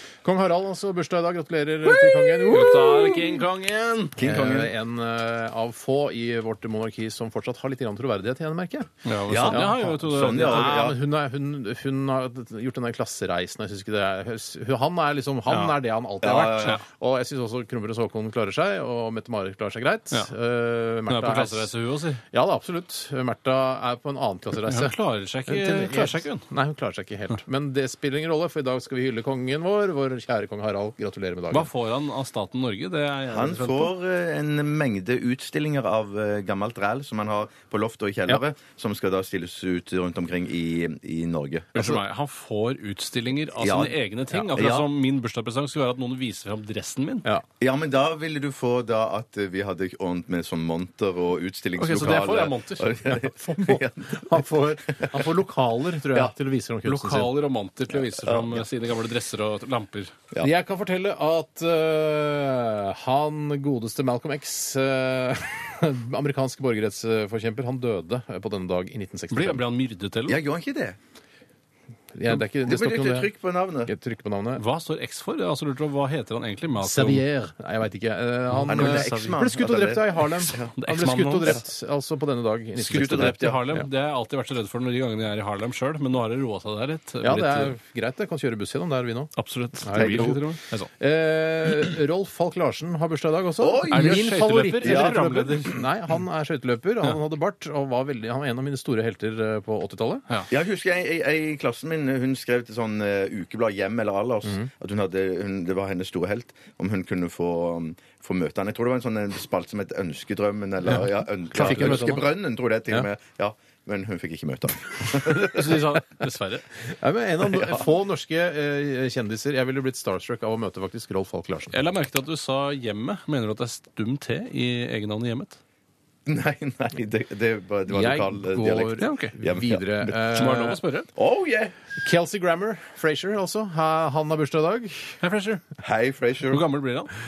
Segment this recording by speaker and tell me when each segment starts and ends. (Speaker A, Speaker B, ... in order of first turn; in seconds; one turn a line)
Speaker A: 0.2-3.2
Speaker B: 2.5-4.2
Speaker C: 4.2-4.7
Speaker A: 4.2-8.9
Speaker B: 9.0-10.8
Speaker C: 9.3-11.0
Speaker A: 9.4-21.7
Speaker C: 16.2-16.8
Speaker B: 21.1-22.2
Speaker A: 22.3-24.9
Speaker B: 24.6-26.4
Speaker A: 25.5-31.7
Speaker B: 31.5-33.9
Speaker C: 33.3-42.0
Speaker B: 41.7-47.2
Speaker C: 43.6-44.0
Speaker C: 44.5-44.9
Speaker C: 47.6-55.3
Speaker B: 51.8-53.2
Speaker A: 53.4-57.3
Speaker B: 56.8-60.1
Speaker C: 58.0-58.6
Speaker A: 60.4-69.6
Speaker B: 69.3-70.4
Speaker C: 70.3-71.0
Speaker A: 72.1-73.3
Speaker C: 72.3-73.9
Speaker A: 73.8-74.6
Speaker B: 74.6-77.2
Speaker A: 76.8-83.8
Speaker B: 78.5-79.3
Speaker C: 78.7-80.7
Speaker B: 80.7-81.6
Speaker B: 82.8-87.7
Speaker C: 82.9-83.6
Speaker A: 87.2-90.4
Speaker B: 89.3-90.9
Speaker C: 90.0-90.4
Speaker A: 91.0-100.2
Speaker C: 93.6-95.5
Speaker B: 93.9-95.7
Speaker C: 100.5-115.8
Speaker A: 110.9-112.2
Speaker B: 111.5-112.1
Speaker B: 115.4-116.6
Speaker A: 117.0-121.7
Speaker C: 117.4-117.8
Speaker B: 121.7-125.6
Speaker C: 126.2-130.1
Speaker A: 127.9-130.8
Speaker B: 129.0-129.3
Speaker B: 130.3-131.1
Speaker C: 131.2-131.8
Speaker A: 132.0-135.2
Speaker B: 135.2-135.6
Speaker C: 135.8-136.6
Speaker B: 136.5-137.1